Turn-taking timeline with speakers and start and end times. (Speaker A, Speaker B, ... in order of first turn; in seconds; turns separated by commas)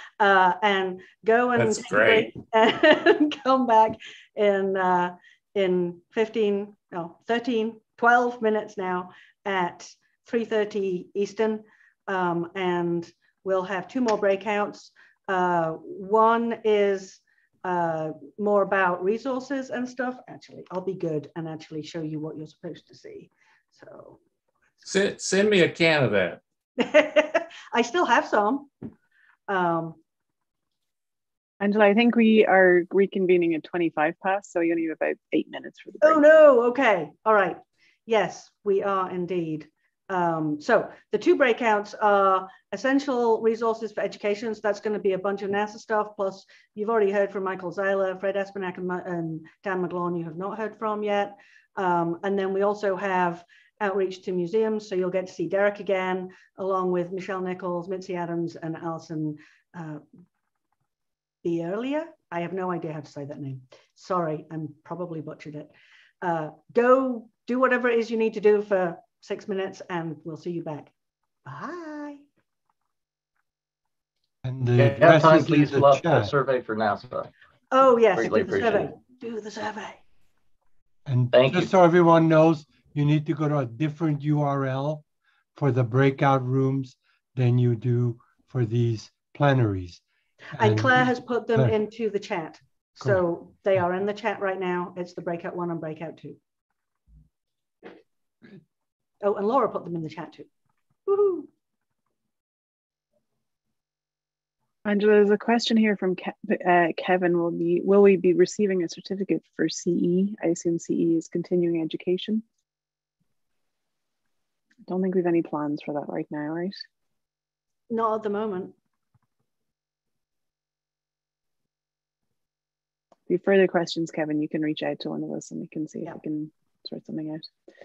Speaker A: 0.2-24.2, Speaker B: 1.6-2.3, Speaker B: 24.8-26.4, Speaker A: 26.8-28.7, Speaker A: 29.5-30.0, Speaker C: 31.6-36.2, Speaker A: 36.0-60.0, Speaker A: 61.4-70.9, Speaker A: 71.5-72.2, Speaker D: 74.4-76.3, Speaker E: 74.8-77.3, Speaker A: 77.7-80.0, Speaker E: 78.2-78.9, Speaker D: 81.1-85.0, Speaker E: 81.3-81.7, Speaker D: 85.5-90.0, Speaker D: 90.6-91.8, Speaker A: 90.6-96.4, Speaker A: 99.2-100.5, Speaker A: 101.1-101.5, Speaker C: 104.8-112.4, Speaker C: 114.9-116.8, Speaker A: 117.9-118.7, Speaker C: 123.3-127.5